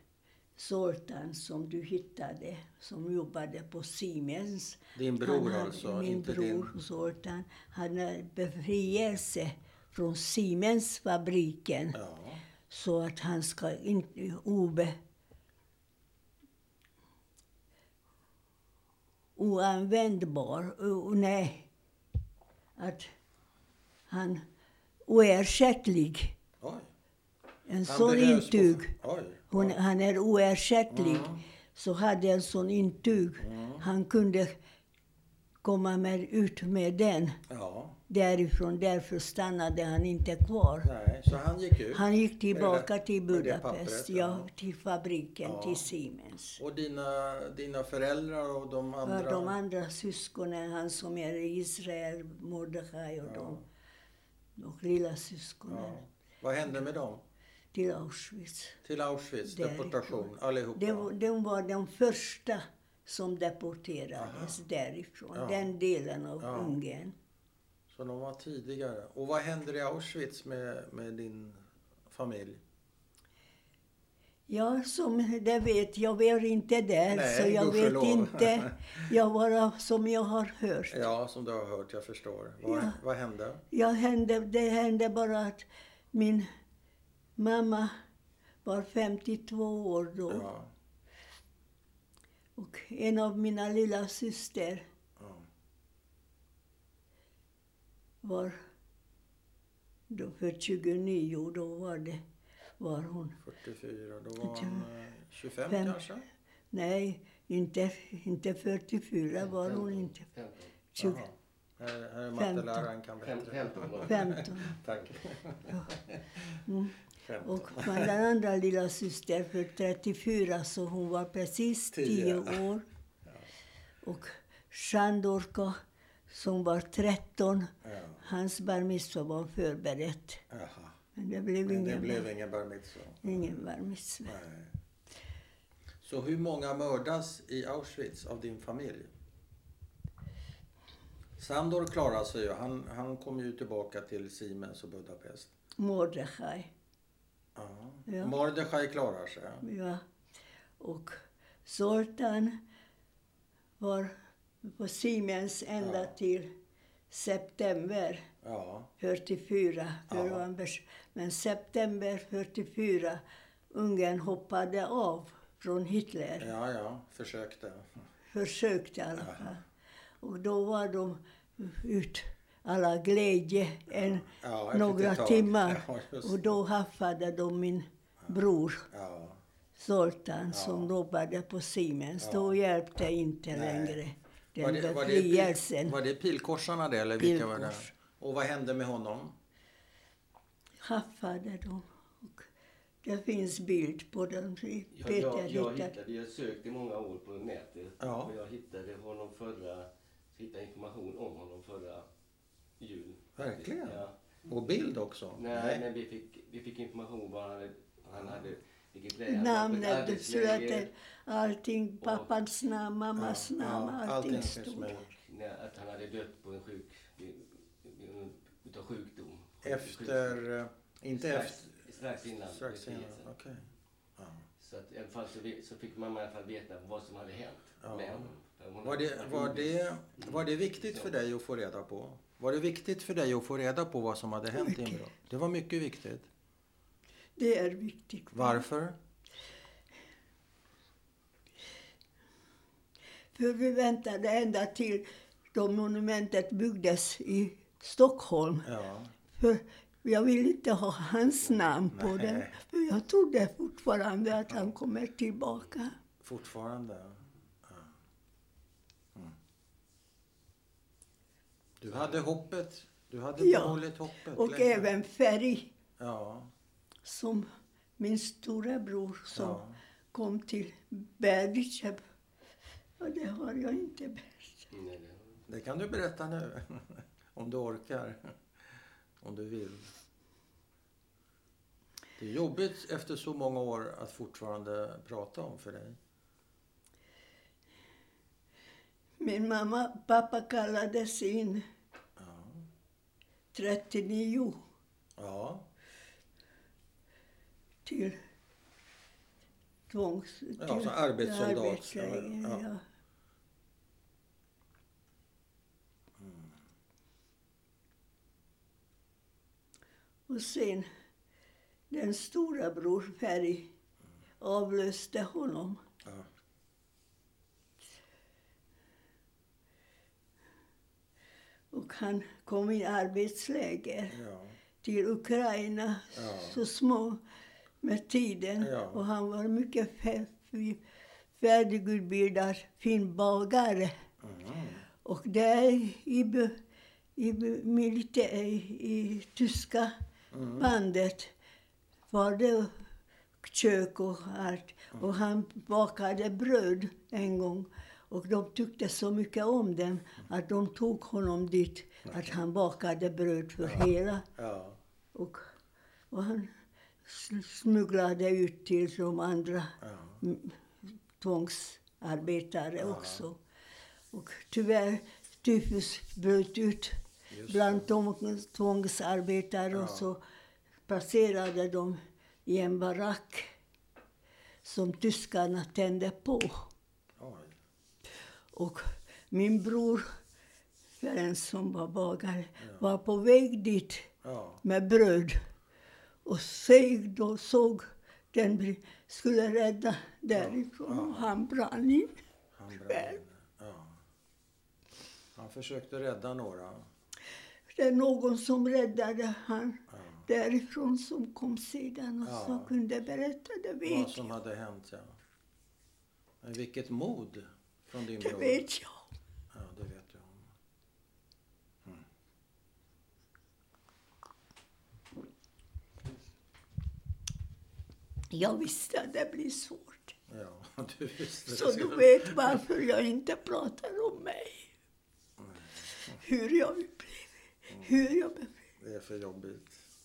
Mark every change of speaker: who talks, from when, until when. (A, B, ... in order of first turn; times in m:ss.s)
0:00.6-0:12.0 A
0:04.9-0:06.7 B
0:11.9-0:12.4 B
0:12.7-0:15.0 A
0:19.4-0:21.7 A
0:22.8-0:23.1 A
0:24.1-0:24.4 A
0:25.1-0:26.4 A
0:26.6-0:26.9 B
0:27.7-0:28.9 A
0:27.8-0:29.8 B
0:29.5-0:34.5 A
0:30.9-0:31.4 B
0:33.4-0:33.8 B
0:35.6-0:37.4 A
0:37.5-0:38.0 B
0:38.1-0:40.9 A
0:40.8-0:44.5 B
0:41.9-0:46.6 A
0:45.4-0:45.9 B
0:46.6-0:49.5 B
0:49.0-0:53.6 A
0:53.2-0:53.6 B
0:54.6-0:56.0 A
0:55.7-0:57.2 B
0:57.7-0:58.8 A
0:58.8-1:01.1 B
0:59.4-1:07.1 A
1:04.1-1:04.6 B
1:05.3-1:05.7 B
1:06.4-1:06.8 B
1:07.9-1:12.6 B
1:14.5-1:21.1 A
1:17.1-1:19.1 B
1:20.9-1:23.6 B
1:22.6-1:23.0 A
1:23.7-1:26.5 A
1:27.4-1:27.9 A
1:28.6-1:30.5 A
1:30.3-1:30.7 B
1:32.6-1:34.8 A
1:35.2-1:35.5 B
1:38.2-1:38.6 A
1:40.1-1:42.2 A
1:42.8-1:43.4 A
1:43.4-1:46.2 B
1:44.4-1:44.9 A
1:45.7-1:46.0 A
1:46.7-1:50.2 A
1:49.4-1:50.7 C
1:50.9-1:51.2 A
1:51.0-1:56.6 B
1:52.3-1:52.9 A
1:53.2-1:54.3 C
1:54.0-1:54.8 A
1:56.6-2:02.8 A
1:57.2-1:58.1 B
2:01.9-2:02.7 B
2:04.0-2:05.8 A
2:06.3-2:10.4 A
2:07.8-2:08.2 B
2:10.5-2:11.0 B
2:11.1-2:12.3 A
2:11.6-2:13.5 B
2:13.2-2:14.4 A
2:14.2-2:14.7 B
2:16.0-2:19.1 B
2:21.4-2:25.5 B
2:25.8-2:26.7 A
2:27.5-2:29.6 B
2:28.1-2:28.3 A
2:29.6-2:30.0 A
2:30.8-2:32.6 A
2:33.8-2:36.5 A
2:35.8-2:36.1 B
2:37.1-2:38.3 A
2:38.4-2:38.9 B
2:39.0-2:46.5 A
2:40.1-2:40.4 B
2:46.4-2:47.9 B
2:48.3-2:49.6 A
2:49.2-2:49.6 B
2:50.2-2:58.9 A
2:53.9-2:56.5 B
2:58.9-2:59.4 B
2:59.8-3:06.0 A
3:00.5-3:00.9 B
3:02.2-3:02.6 B
3:03.5-3:04.0 B
3:04.6-3:09.3 B
3:07.2-3:07.9 A
3:10.8-3:12.5 A
3:13.0-3:15.9 A
3:14.9-3:22.0 C
3:18.0-3:18.3 B
3:22.8-3:24.1 C
3:23.4-3:25.8 B
3:25.4-3:30.9 C
3:28.1-3:28.5 B
3:29.3-3:35.0 A
3:32.0-3:32.3 C
3:33.2-3:35.1 B
3:35.2-3:40.4 C
3:39.6-3:41.8 B
3:41.2-3:43.3 C
3:42.4-3:43.6 B
3:44.2-3:44.4 B
3:44.6-3:51.1 C
3:47.8-3:48.3 B
3:48.8-3:56.3 B
3:54.5-3:55.0 A
3:57.4-3:58.6 A
3:58.3-3:59.0 B
4:03.3-4:08.7 A
4:08.6-4:09.1 B
4:09.4-4:16.0 A
4:11.9-4:12.5 B
4:16.2-4:17.9 B
4:21.8-4:24.9 B
4:23.4-4:23.8 A
4:24.3-4:25.7 A
4:26.0-4:26.5 B
4:27.0-4:27.5 A
4:28.0-4:32.0 A
4:29.3-4:29.8 B
4:33.0-4:34.7 A
4:34.7-4:35.4 C
4:35.5-4:38.3 B
4:39.2-4:39.9 B
4:42.2-4:46.0 B
4:49.2-4:51.6 A
4:52.2-4:52.6 B
4:53.5-4:54.6 A
4:55.2-4:55.7 B
4:57.8-4:58.2 A
4:59.9-5:02.8 A
5:00.6-5:02.6 B
5:06.2-5:06.6 B
5:10.3-5:10.9 A
5:11.9-5:13.7 A
5:14.4-5:15.8 A
5:21.7-5:24.2 A
5:24.1-5:24.6 B
5:24.8-5:27.2 A
5:26.1-5:26.6 B
5:27.8-5:30.8 A
5:28.6-5:29.0 B
5:31.4-5:33.9 A
5:34.2-5:34.8 B
5:35.0-5:36.5 A
5:37.2-5:39.9 A
5:40.3-5:40.7 B
5:40.6-5:41.3 A
5:42.1-5:42.7 A
5:43.4-5:54.3 A
5:53.6-5:54.8 B
5:55.1-5:55.4 A
5:56.1-5:56.5 A
5:57.0-6:00.6 A
5:59.8-6:00.2 B
6:01.2-6:03.4 A
6:02.8-6:03.2 B
6:04.1-6:10.2 A
6:07.3-6:07.9 B
6:09.7-6:10.1 B
6:10.9-6:13.5 A
6:14.6-6:16.7 A
6:17.2-6:17.6 B
6:18.5-6:20.1 A
6:21.0-6:24.1 A
6:22.6-6:22.8 B
6:24.2-6:24.6 B
6:24.6-6:25.4 A
6:26.2-6:32.2 A
6:30.3-6:31.3 B
6:32.6-6:34.0 B
6:32.7-6:33.2 A
6:35.4-6:36.9 B
6:37.8-6:44.3 A
6:39.9-6:40.2 B
6:42.2-6:42.7 B
6:43.8-6:45.2 B
6:46.4-6:48.6 B
6:48.2-6:49.1 A
6:49.5-6:50.4 B
6:58.3-7:00.1 A
7:00.3-7:02.6 B
7:01.5-7:04.7 A
7:05.4-7:06.2 B
7:06.2-7:08.6 A
7:07.7-7:07.9 B
7:08.8-7:09.8 B